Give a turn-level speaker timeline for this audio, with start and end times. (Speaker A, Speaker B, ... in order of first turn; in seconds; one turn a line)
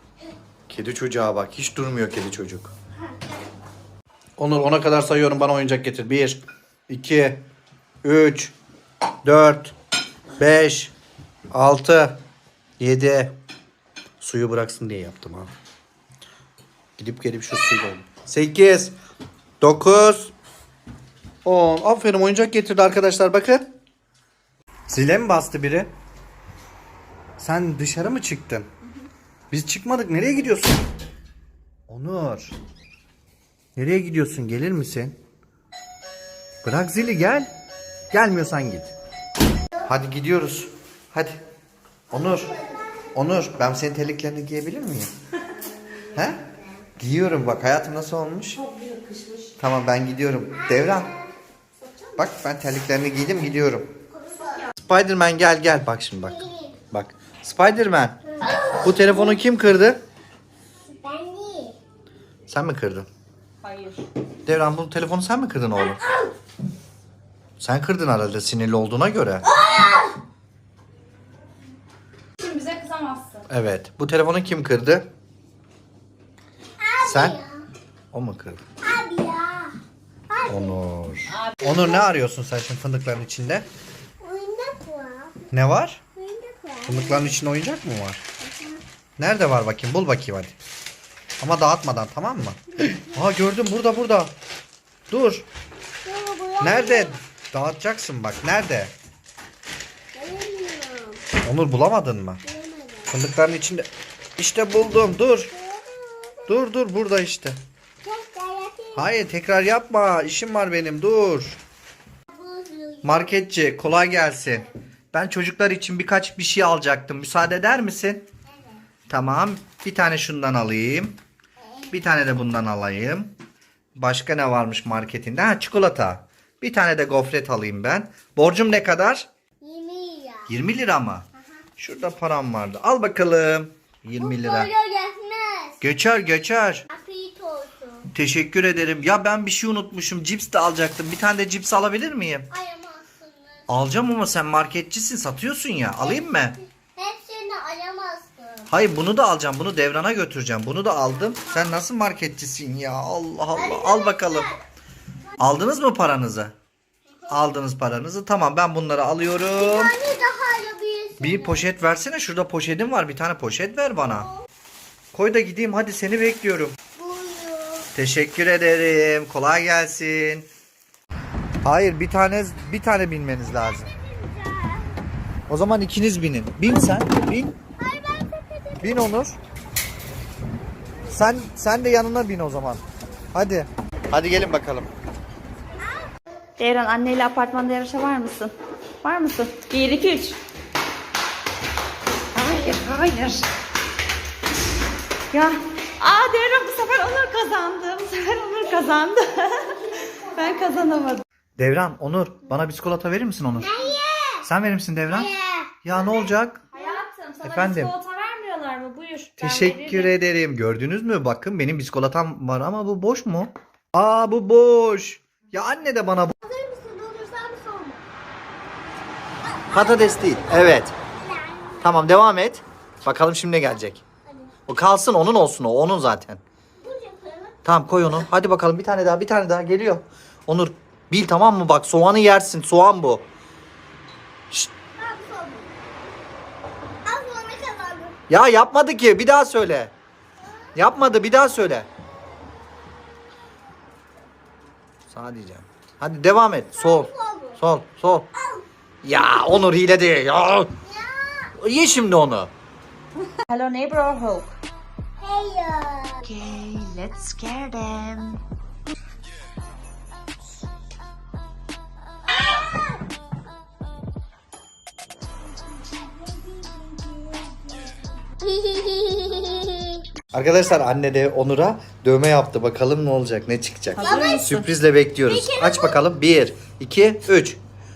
Speaker A: 0.7-2.7
Speaker A: 4.4-7.5
Speaker A: 8.0-8.5
Speaker A: 9.2-9.7
Speaker A: 10.4-10.9
Speaker A: 11.5-12.2
Speaker A: 12.8-13.4
Speaker A: 14.2-15.5
Speaker A: 17.0-18.9
Speaker A: 19.6-20.3
Speaker A: 21.4-23.7
Speaker A: 24.9-25.9
Speaker A: 27.4-28.7
Speaker A: 29.5-30.8
Speaker A: 31.9-32.5
Speaker A: 33.8-35.2
Speaker A: 36.6-37.5
Speaker A: 38.1-38.9
Speaker A: 39.9-41.4
Speaker A: 42.1-42.5
Speaker B: 42.1-42.9
Speaker A: 43.1-45.1
Speaker A: 46.1-46.4
Speaker A: 47.0-48.6
Speaker C: 48.6-49.5
Speaker A: 49.6-51.1
Speaker B: 50.5-51.3
Speaker A: 52.2-53.9
Speaker B: 54.3-54.6
Speaker A: 54.8-58.2
Speaker B: 56.3-56.8
Speaker B: 58.4-58.8
Speaker A: 58.8-60.0
Speaker B: 60.9-61.8
Speaker A: 62.5-63.1
Speaker C: 63.6-64.0
Speaker A: 64.5-66.0
Speaker B: 65.9-66.3
Speaker A: 67.6-69.5
Speaker B: 69.5-70.2
Speaker C: 72.4-73.5
Speaker A: 73.5-75.1
Speaker B: 76.8-77.7
Speaker A: 77.0-77.4
Speaker A: 78.1-78.6
Speaker B: 78.8-79.8
Speaker B: 80.3-80.8
Speaker A: 80.5-83.7
Speaker C: 81.3-81.7
Speaker B: 84.2-85.4
Speaker A: 85.5-86.0
Speaker B: 86.2-87.3
Speaker A: 86.9-88.2
Speaker A: 89.2-90.6
Speaker A: 91.4-94.3
Speaker A: 95.1-95.5
Speaker B: 96.0-97.2
Speaker A: 96.6-98.9
Speaker B: 100.1-101.2
Speaker A: 101.4-102.4
Speaker B: 102.5-103.1
Speaker A: 103.1-105.5
Speaker B: 105.5-106.6
Speaker A: 106.5-107.6
Speaker B: 108.0-109.1
Speaker A: 108.9-111.6
Speaker B: 112.3-113.2
Speaker A: 113.0-118.3
Speaker B: 118.5-118.8
Speaker A: 119.1-121.2
Speaker B: 121.6-121.9
Speaker A: 121.9-123.3
Speaker A: 124.0-129.3
Speaker B: 129.6-130.5
Speaker A: 130.5-131.3
Speaker A: 131.8-134.7
Speaker B: 134.2-135.8
Speaker A: 135.8-136.9
Speaker B: 136.9-138.1
Speaker A: 138.1-142.5
Speaker B: 142.5-143.6
Speaker A: 143.7-146.6
Speaker B: 146.0-146.4
Speaker B: 146.9-148.7
Speaker A: 148.7-154.5
Speaker B: 153.6-154.6
Speaker A: 155.4-156.5
Speaker A: 157.3-159.9
Speaker B: 159.6-161.7
Speaker A: 161.2-164.3
Speaker A: 165.1-166.8
Speaker B: 167.0-167.9
Speaker A: 167.9-170.5
Speaker A: 171.7-173.9
Speaker B: 173.6-175.0
Speaker A: 175.5-177.6
Speaker B: 177.8-179.1
Speaker A: 178.8-179.4
Speaker A: 181.1-184.9
Speaker C: 186.6-190.4
Speaker C: 192.3-193.4
Speaker C: 195.3-199.7
Speaker B: 198.3-198.9
Speaker B: 199.6-200.9
Speaker C: 200.3-201.2
Speaker A: 201.6-203.7
Speaker B: 203.6-204.5
Speaker A: 204.4-205.3
Speaker B: 205.1-206.3
Speaker A: 205.8-206.6
Speaker C: 206.7-210.2
Speaker A: 207.4-207.9
Speaker A: 209.4-216.3
Speaker B: 216.4-218.0
Speaker B: 219.7-220.3
Speaker A: 219.7-220.9
Speaker B: 221.2-222.0
Speaker A: 221.8-224.0
Speaker A: 224.7-226.4
Speaker B: 226.8-227.5
Speaker A: 227.7-233.3
Speaker B: 235.0-235.7
Speaker B: 237.1-238.2
Speaker A: 238.3-239.9
Speaker A: 240.8-241.9
Speaker A: 245.1-248.3
Speaker B: 246.8-247.6
Speaker A: 249.0-250.7
Speaker B: 250.9-251.5
Speaker A: 251.6-252.5
Speaker C: 253.4-254.5
Speaker B: 255.2-256.3
Speaker C: 256.2-258.4
Speaker B: 268.4-270.0
Speaker A: 270.3-277.6
Speaker C: 273.9-274.7
Speaker B: 274.0-274.5
Speaker B: 275.3-276.0